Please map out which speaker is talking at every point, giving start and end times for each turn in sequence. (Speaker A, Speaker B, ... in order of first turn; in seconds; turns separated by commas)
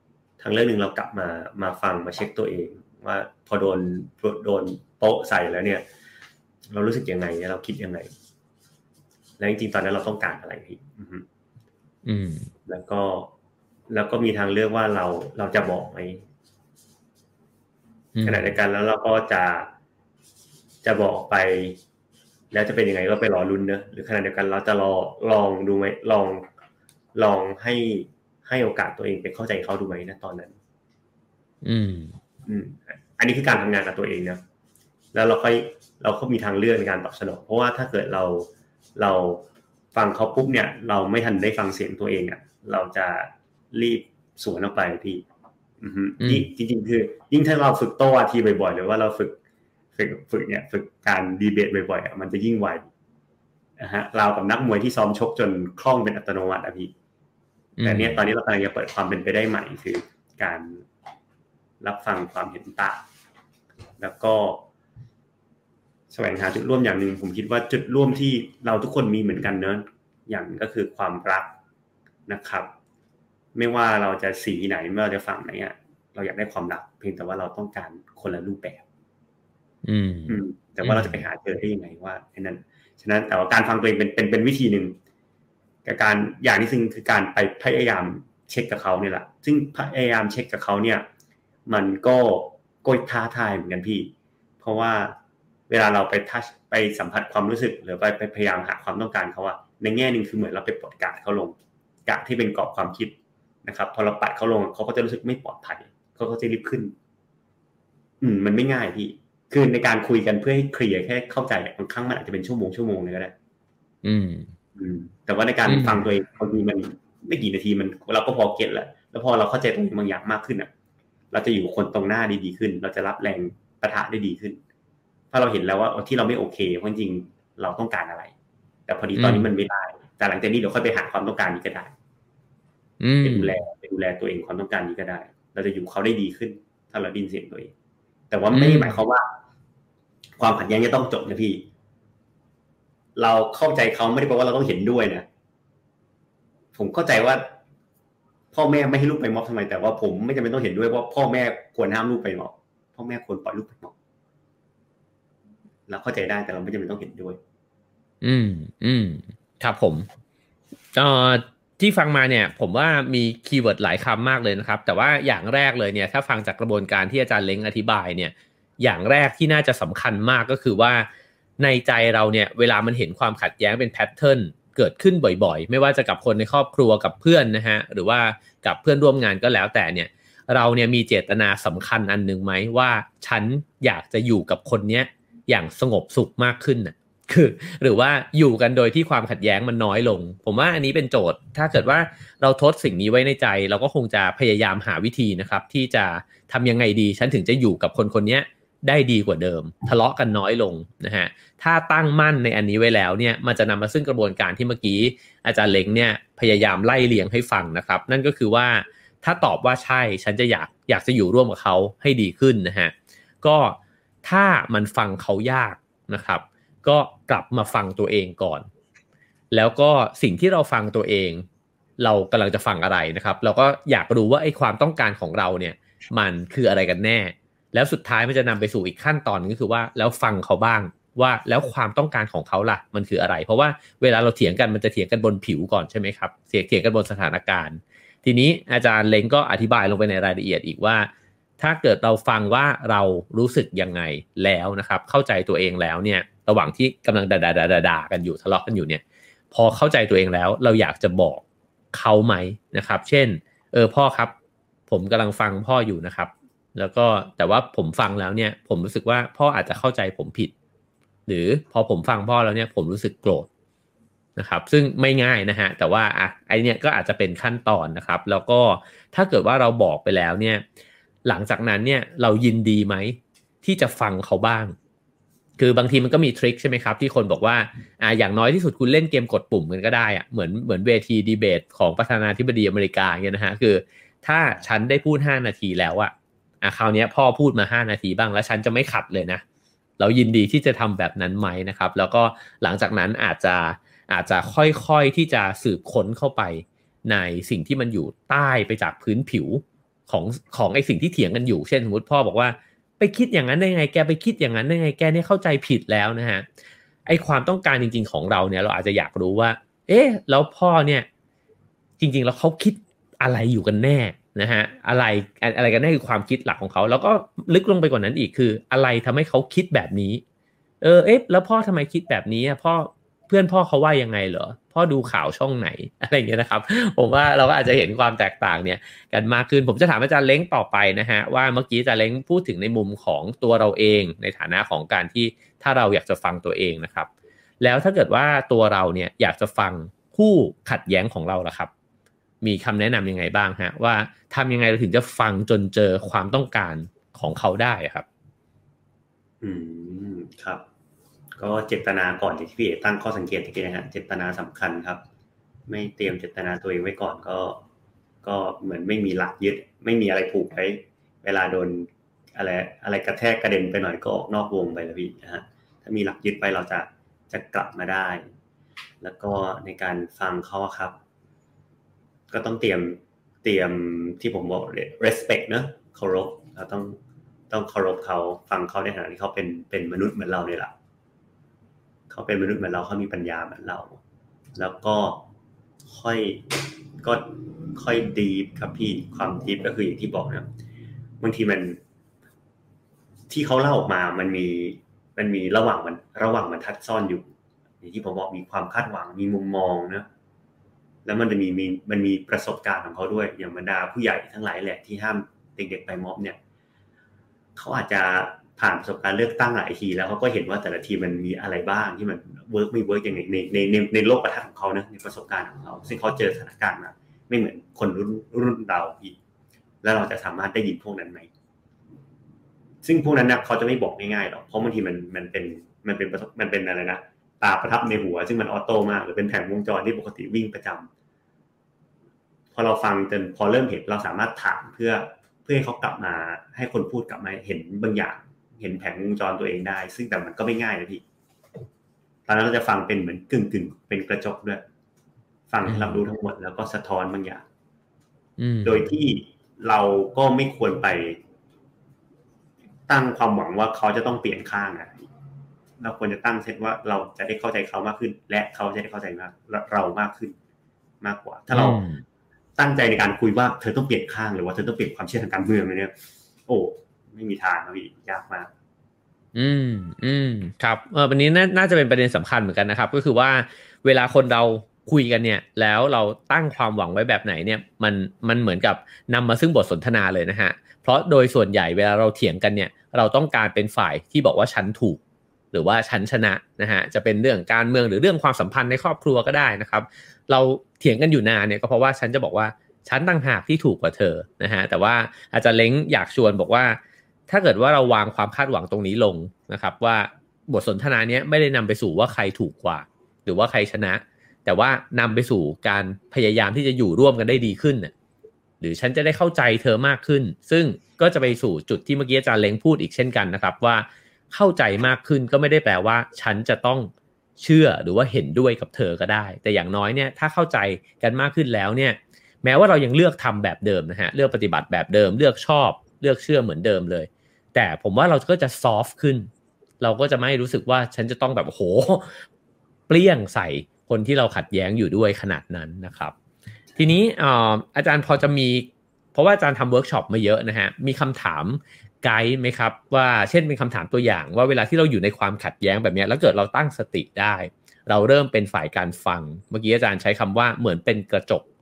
Speaker A: 0.4-5.8, Speaker A: 6.7-8.1, Speaker A: 9.4-11.2, Speaker B: 12.0-12.5, Speaker A: 12.7-13.3, Speaker A: 13.9-16.2, Speaker B: 18.1-18.4, Speaker A: 18.2-19.7, Speaker A: 20.8-21.8, Speaker A: 22.5-26.4, Speaker A: 27.1-30.6, Speaker B: 31.6-32.1, Speaker A: 32.5-34.4, Speaker A: 35.1-45.2, Speaker A: 45.8-49.4, Speaker B: 46.2-46.5, Speaker A: 49.9-52.9, Speaker A: 53.8-56.9, Speaker B: 57.8-58.2, Speaker A: 57.8-60.8, Speaker A: 61.8-63.0, Speaker A: 64.0-64.6, Speaker A: 66.1-71.5, Speaker A: 72.3-72.7, Speaker A: 73.5-78.8, Speaker B: 79.8-81.2, Speaker A: 80.3-85.0, Speaker A: 85.8-91.0, Speaker A: 91.7-95.2, Speaker A: 95.7-101.5, Speaker A: 102.0-103.1, Speaker A: 103.6-106.9, Speaker A: 108.2-113.3, Speaker B: 114.0-114.5, Speaker A: 114.8-120.7, Speaker B: 115.7-116.0, Speaker A: 121.3-124.6, Speaker A: 125.3-128.3, Speaker A: 128.9-131.9, Speaker B: 129.2-129.5, Speaker B: 133.0-133.6, Speaker A: 133.2-137.7, Speaker A: 138.3-139.2, Speaker B: 138.5-138.9, Speaker A: 140.4-141.7, Speaker A: 143.2-145.2, Speaker A: 146.8-147.4, Speaker A: 148.5-153.9, Speaker A: 155.9-157.4, Speaker B: 158.2-160.1, Speaker B: 160.9-171.1, Speaker B: 171.6-218.7, Speaker B: 219.5-221.4, Speaker B: 222.0-254.3, Speaker B: 254.9-260.5, Speaker B: 261.3-263.5, Speaker B: 264.4-270.6, Speaker B: 271.2-274.7, Speaker B: 275.6-289.4, Speaker B: 290.0-306.4, Speaker B: 307.1-311.1, Speaker B: 312.0-320.2, Speaker B: 320.8-337.1, Speaker B: 337.6-341.7, Speaker B: 342.4-348.0, Speaker A: 349.4-350.6, Speaker A: 351.4-355.0, Speaker A: 355.7-357.6, Speaker A: 358.2-368.2, Speaker A: 369.0-370.9, Speaker A: 372.3-377.0, Speaker A: 377.5-380.7, Speaker A: 382.1-384.0, Speaker A: 384.6-385.2, Speaker A: 385.9-390.5, Speaker A: 391.2-391.8, Speaker A: 393.3-397.3, Speaker A: 397.8-400.1, Speaker A: 401.1-406.4, Speaker A: 407.6-419.2, Speaker A: 419.8-421.3, Speaker A: 422.8-430.9, Speaker A: 432.5-441.0, Speaker A: 442.3-444.6, Speaker A: 445.5-447.4, Speaker B: 445.6-446.0, Speaker B: 448.4-448.9, Speaker A: 448.6-451.2, Speaker A: 452.9-455.1, Speaker A: 455.8-460.3, Speaker A: 461.0-461.8, Speaker B: 461.5-462.0, Speaker A: 462.6-465.9, Speaker A: 466.5-468.5, Speaker B: 469.3-485.0, Speaker B: 485.5-507.9, Speaker B: 508.6-529.3, Speaker B: 529.8-532.2, Speaker B: 532.9-536.1, Speaker B: 536.8-551.4